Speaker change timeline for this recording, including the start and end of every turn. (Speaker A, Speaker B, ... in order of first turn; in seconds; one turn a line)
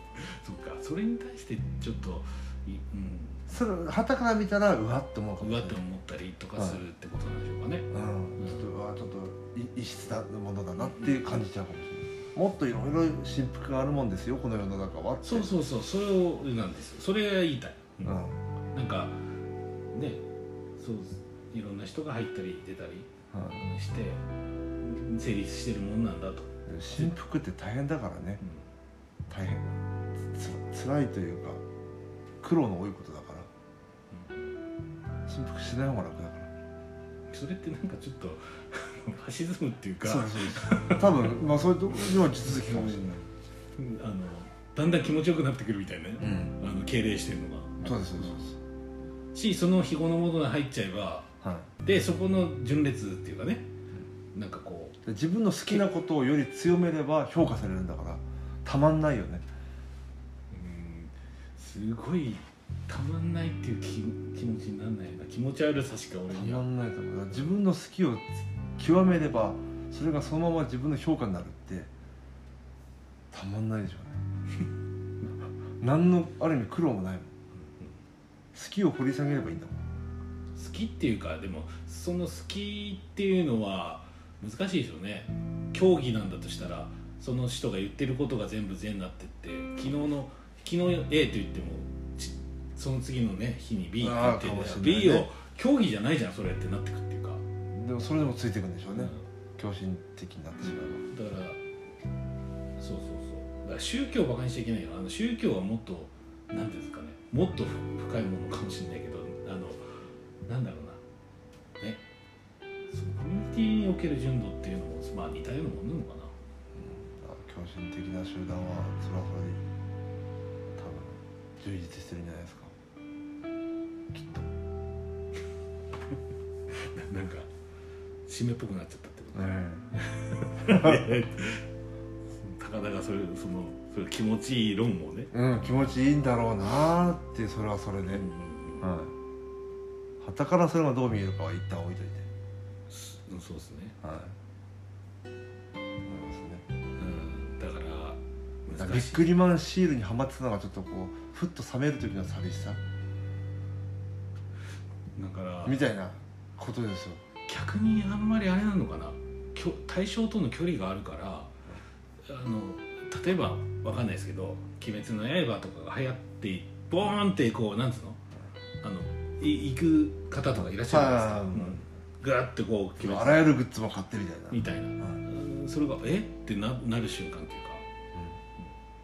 Speaker A: 0.2-3.5
Speaker B: 3.5-5.8
Speaker A: 5.4-8.7
Speaker B: 7.9-15.5
Speaker A: 10.8-11.3
Speaker A: 15.2-18.2
Speaker B: 18.0-18.4
Speaker A: 18.7-19.2
Speaker A: 19.9-20.2
Speaker A: 20.8-24.2
Speaker B: 23.3-23.6
Speaker A: 24.8-27.1
Speaker B: 26.7-28.4
Speaker B: 29.3-31.6
Speaker B: 32.4-33.5
Speaker A: 34.1-34.5
Speaker B: 35.3-36.5
Speaker A: 37.3-41.3
Speaker B: 40.0-43.2
Speaker A: 42.0-43.2
Speaker A: 43.8-48.5
Speaker B: 46.2-46.6
Speaker B: 47.8-48.6
Speaker A: 49.3-51.3
Speaker B: 51.4-51.7
Speaker A: 51.8-53.7
Speaker A: 54.3-55.0
Speaker B: 55.0-59.5
Speaker A: 60.5-66.7
Speaker B: 66.3-71.9
Speaker B: 73.3-74.2
Speaker B: 75.8-77.3
Speaker B: 78.5-79.8
Speaker A: 80.5-97.4
Speaker B: 94.0-95.3
Speaker B: 97.7-101.0
Speaker A: 99.0-99.2
Speaker A: 100.6-101.6
Speaker A: 102.8-109.8
Speaker A: 110.5-111.0
Speaker A: 112.9-116.3
Speaker B: 116.8-119.6
Speaker B: 120.8-122.7
Speaker B: 124.1-124.5
Speaker A: 126.7-127.5
Speaker A: 128.3-131.7
Speaker B: 129.3-129.8
Speaker B: 130.6-131.0
Speaker A: 132.4-135.3
Speaker B: 135.3-138.2
Speaker A: 138.1-138.9
Speaker B: 138.8-139.1
Speaker B: 140.2-142.3
Speaker A: 142.9-144.0
Speaker B: 144.0-144.3
Speaker B: 146.0-146.6
Speaker A: 147.0-149.3
Speaker B: 148.8-152.8
Speaker A: 155.2-155.8
Speaker B: 155.7-157.2
Speaker A: 157.5-161.5
Speaker A: 162.2-168.2
Speaker A: 168.8-173.5
Speaker B: 170.5-171.8
Speaker B: 173.0-175.2
Speaker A: 174.5-177.8